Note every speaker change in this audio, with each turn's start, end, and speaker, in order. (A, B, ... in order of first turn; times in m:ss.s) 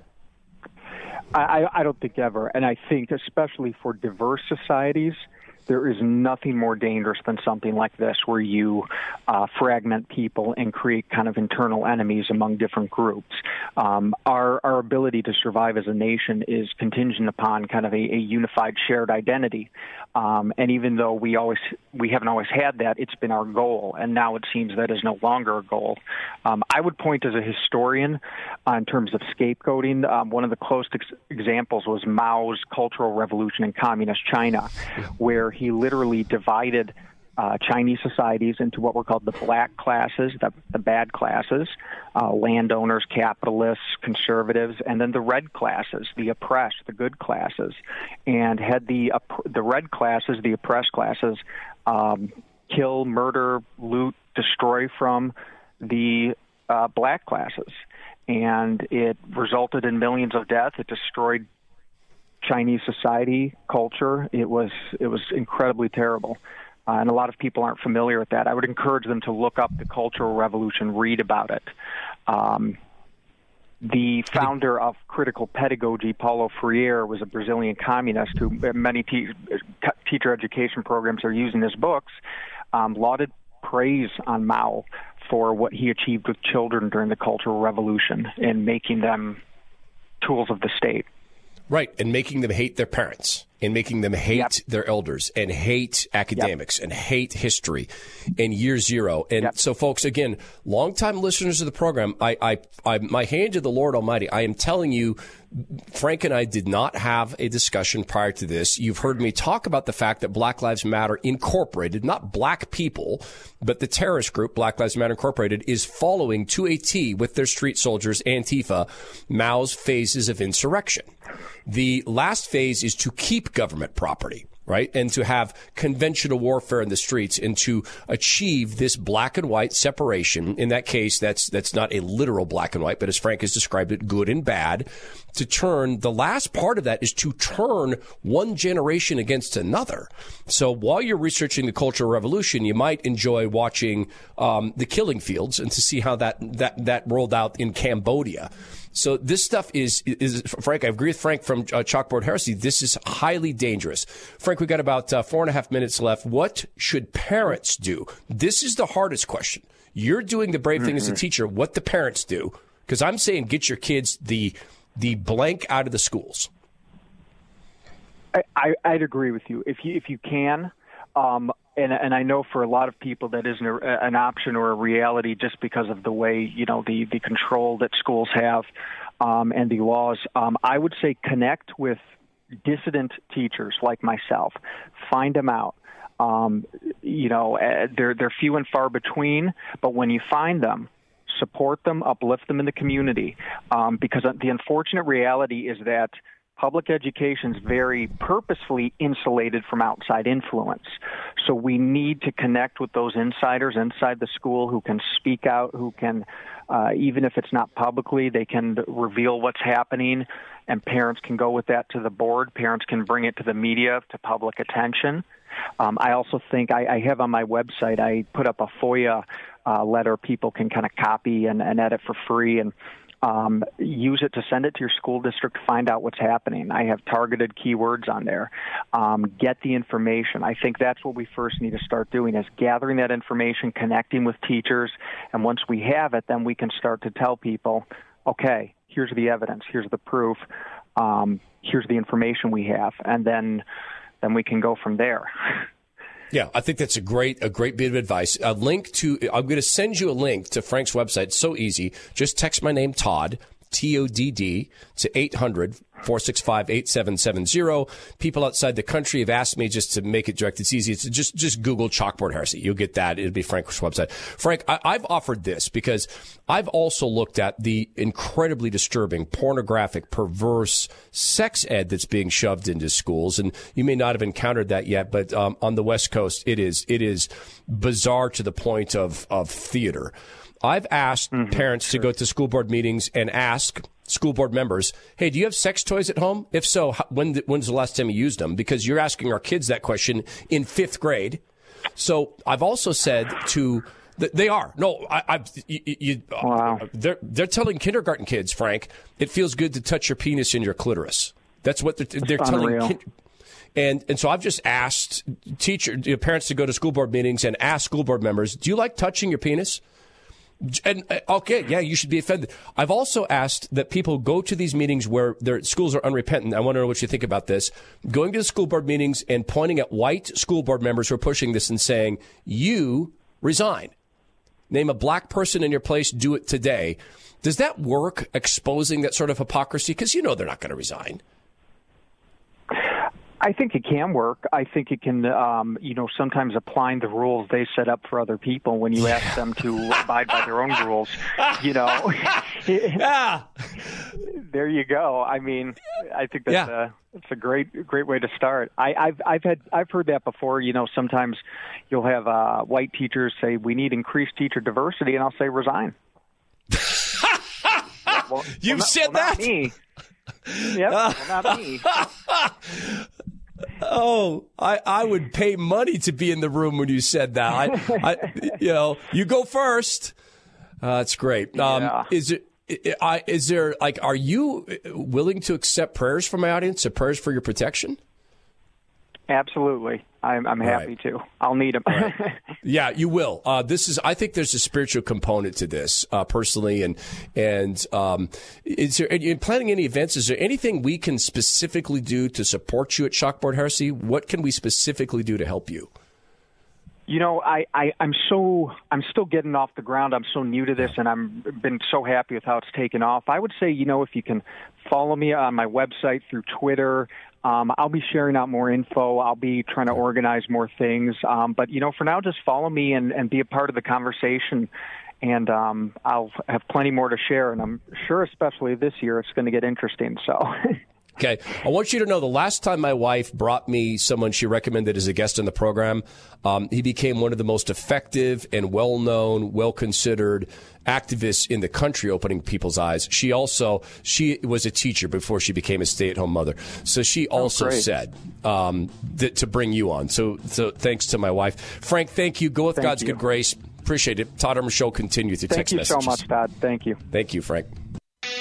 0:01.3-1:01.5 A
1:02.4-1:11.7 A
1:12.3-1:12.8 A
1:13.8-1:22.2 A
1:22.7-1:29.4 A
1:30.2-1:31.1 A
1:31.7-2:01.1 B
2:01.7-2:46.5 B
2:48.3-2:58.7 A
2:59.2-3:02.0 A
3:02.6-3:35.2 A
3:35.8-4:00.4 A
4:01.0-4:03.6 A
4:04.2-4:05.7 A
4:06.3-4:51.4 B
4:52.0-5:03.0 B
4:56.4-4:56.8 A
5:02.2-5:03.0 A
5:03.8-5:09.8 B
5:10.6-5:23.9 B
5:24.7-5:31.2 B
5:32.7-5:43.0 A
5:42.9-5:43.6 B
5:44.2-5:56.0 A
5:56.8-5:59.6 B
5:58.1-5:59.8 A
6:00.5-6:03.1 B
6:00.7-6:01.9 A
6:03.8-6:10.1 B
6:10.8-6:18.0 B
6:11.6-6:12.1 A
6:19.3-6:22.4 A
6:22.6-6:35.9 B
6:37.1-6:54.7 A
6:55.2-7:00.8 A
7:01.2-7:26.2 B
7:17.4-7:17.9 A
7:22.8-7:23.2 A
7:25.5-7:27.0 A
7:27.1-7:27.7 B